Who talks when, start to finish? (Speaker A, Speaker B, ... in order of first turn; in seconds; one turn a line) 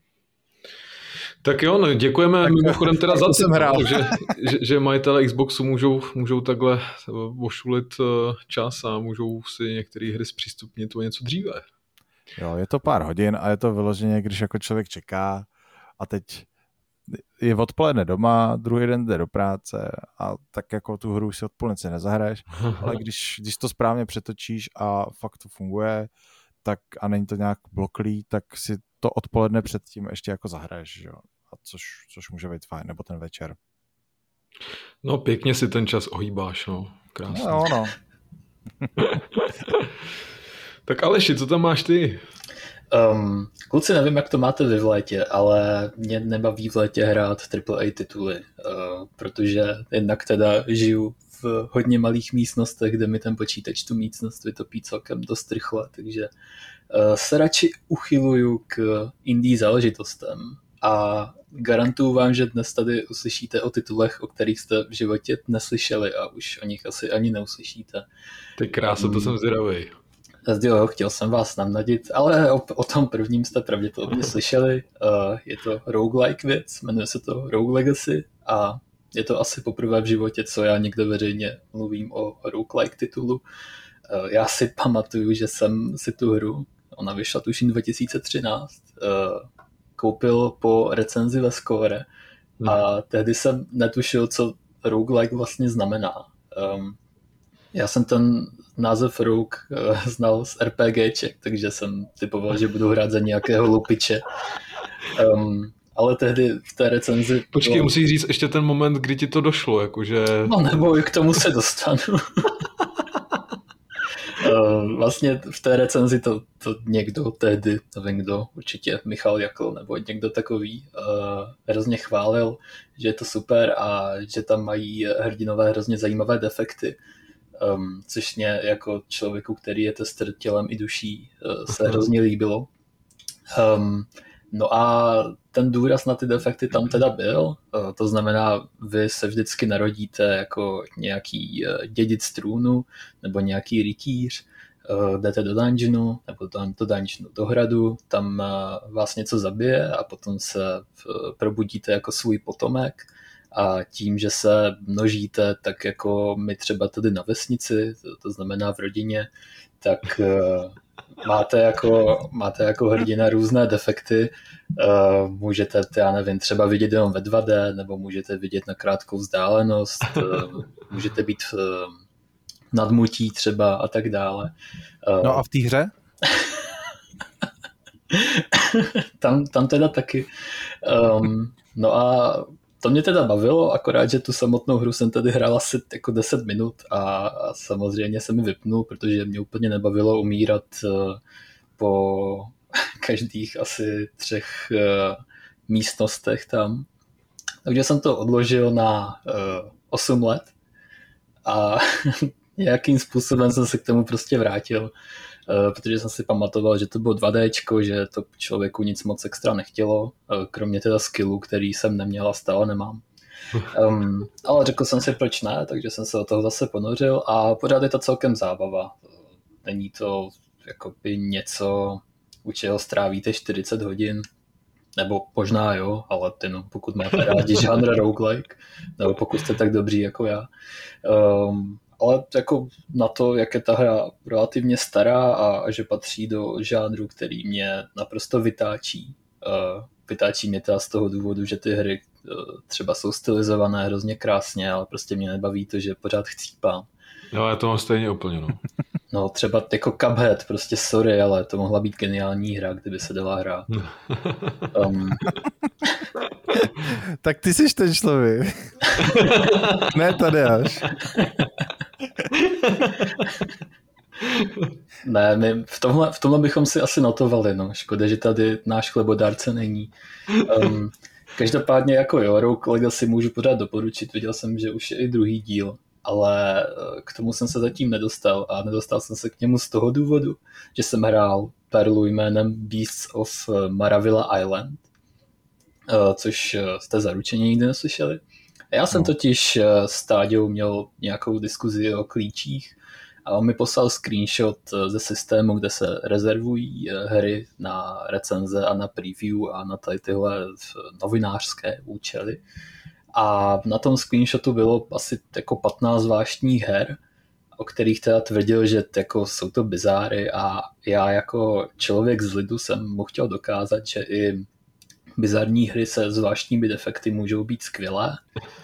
Speaker A: 1.4-11.6
Speaker B: 2.4-4.3
Speaker B: 12.4-16.5
Speaker B: 17.1-26.1
Speaker B: 26.6-33.6
Speaker A: 35.0-37.7
Speaker B: 37.3-37.9
Speaker A: 39.0-39.9
Speaker A: 40.9-42.2
Speaker C: 42.9-56.3
Speaker C: 56.9-68.0
Speaker A: 68.6-69.9
Speaker C: 68.9-69.3
Speaker C: 70.5-83.4
Speaker C: 84.1-89.5
Speaker C: 90.0-92.1
Speaker C: 92.7-97.0
Speaker C: 97.7-104.2
Speaker C: 105.1-107.9
Speaker A: 107.5-110.8
Speaker C: 110.5-112.5
Speaker C: 114.4-127.0
Speaker C: 127.6-132.7
Speaker C: 133.5-159.3
Speaker C: 159.8-172.0
Speaker C: 172.7-174.5
Speaker C: 175.0-175.4
Speaker B: 175.2-175.9
Speaker C: 178.1-180.3
Speaker C: 180.8-191.2
Speaker C: 191.8-196.8
Speaker C: 197.7-200.5
Speaker C: 201.4-204.9
Speaker C: 205.5-213.0
Speaker C: 213.6-219.1
Speaker C: 219.6-224.3
Speaker C: 225.0-230.5
Speaker A: 227.2-227.7
Speaker C: 231.0-246.9
Speaker A: 247.3-248.6
Speaker C: 249.1-253.7
Speaker A: 253.7-254.6
Speaker C: 254.7-255.3
Speaker B: 256.9-258.8
Speaker A: 259.1-259.9
Speaker B: 259.8-260.9
Speaker A: 262.4-263.3
Speaker A: 264.2-264.7
Speaker C: 265.0-284.8
Speaker C: 285.9-302.4
Speaker C: 303.1-307.0
Speaker C: 307.6-314.4
Speaker C: 315.2-318.2